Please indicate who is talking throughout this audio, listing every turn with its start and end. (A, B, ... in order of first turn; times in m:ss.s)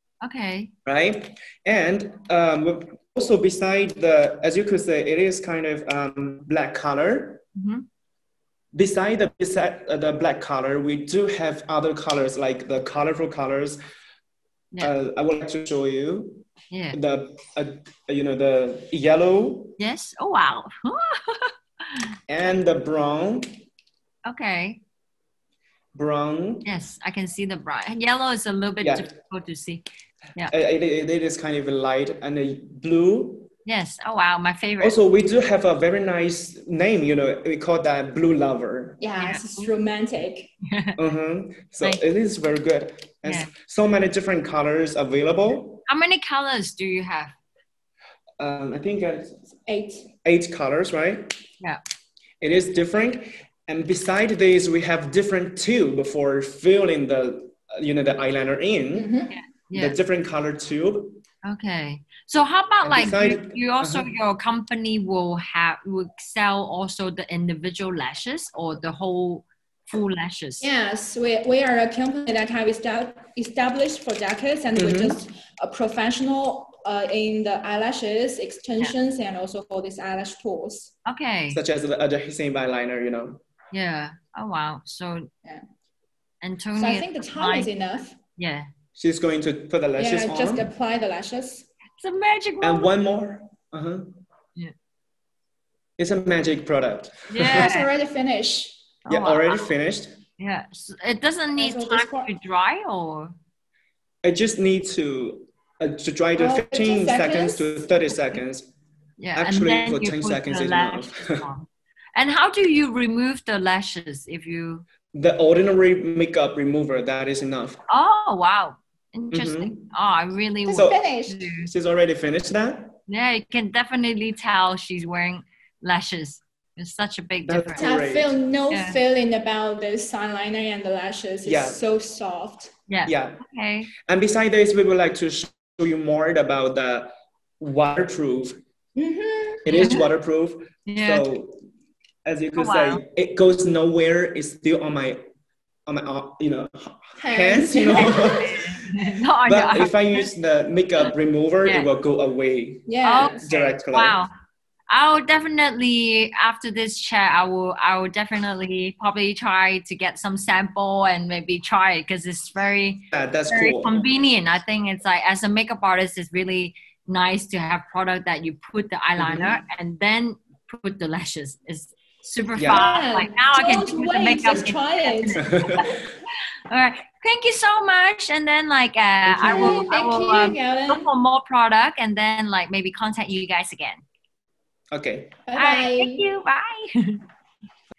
0:00.2-0:00.7 A
0:00.8-0:07.4 B
0:07.6-0:07.8 A
0:08.7-0:13.8 B
0:14.8-0:19.8 B
0:16.7-0:17.0 A
0:19.8-0:22.1 A
0:22.3-0:23.5 B
0:24.2-0:24.8 A
0:25.9-0:26.6 B
0:26.6-0:29.8 A
0:28.8-0:29.1 B
0:30.5-0:33.5 B
0:33.6-0:35.0 A
0:34.8-0:39.0 B
0:39.0-0:40.5 C
0:39.2-0:39.7 A
0:40.6-0:41.0 A
0:41.0-0:45.8 B
0:43.2-0:43.5 A
0:45.9-0:47.3 A
0:48.4-0:49.4 B
0:49.6-0:50.1 C
0:50.2-0:51.3 B
0:52.4-0:59.1 B
0:58.9-0:59.3 C
0:59.3-1:00.0 A
0:59.7-1:01.2 B
1:01.4-1:10.7 A
1:02.8-1:04.1 B
1:10.6-1:20.9 C
1:14.7-1:15.2 B
1:21.0-1:21.6 A
1:21.5-1:23.4 B
1:23.7-1:25.3 A
1:26.4-1:27.7 A
1:26.7-1:28.2 C
1:28.4-1:28.7 A
1:29.0-1:30.7 B
1:30.0-1:31.7 C
1:32.0-1:32.9 A
1:32.6-1:34.1 B
1:36.0-1:37.7 B
1:37.3-1:37.9 A
1:37.4-1:38.8 C
1:39.1-1:39.7 A
1:39.1-1:40.2 B
1:40.4-1:43.3 A
1:41.6-1:42.3 C
1:44.2-1:48.7 B
1:46.4-1:47.8 C
1:49.2-1:54.8 A
1:49.4-1:51.4 B
1:55.1-1:57.8 B
1:57.9-2:01.7 A
1:59.3-1:59.9 B
2:00.7-2:01.4 C
2:00.7-2:01.0 B
2:01.7-2:03.0 B
2:03.1-2:07.9 A
2:07.4-2:08.4 B
2:07.8-2:12.7 C
2:08.7-2:09.0 A
2:11.4-2:11.8 B
2:12.9-2:13.9 A
2:13.0-2:13.4 B
2:14.0-2:18.6 B
2:19.0-2:19.6 C
2:19.6-2:21.6 B
2:19.7-2:20.0 A
2:20.9-2:21.2 A
2:22.2-2:25.2 B
2:22.6-2:23.0 A
2:25.9-2:34.2 B
2:27.2-2:28.6 C
2:28.4-2:30.3 A
2:31.6-2:31.9 A
2:32.9-2:33.4 C
2:33.0-2:34.3 A
2:34.9-2:56.0 A
2:43.1-2:44.0 B
2:49.2-2:49.5 B
2:52.6-2:53.2 B
2:52.7-2:55.4 C
2:55.4-2:55.9 B
2:56.7-3:04.0 A
2:59.3-3:01.1 C
3:04.9-3:05.4 B
3:05.4-3:06.2 C
3:05.5-3:07.2 A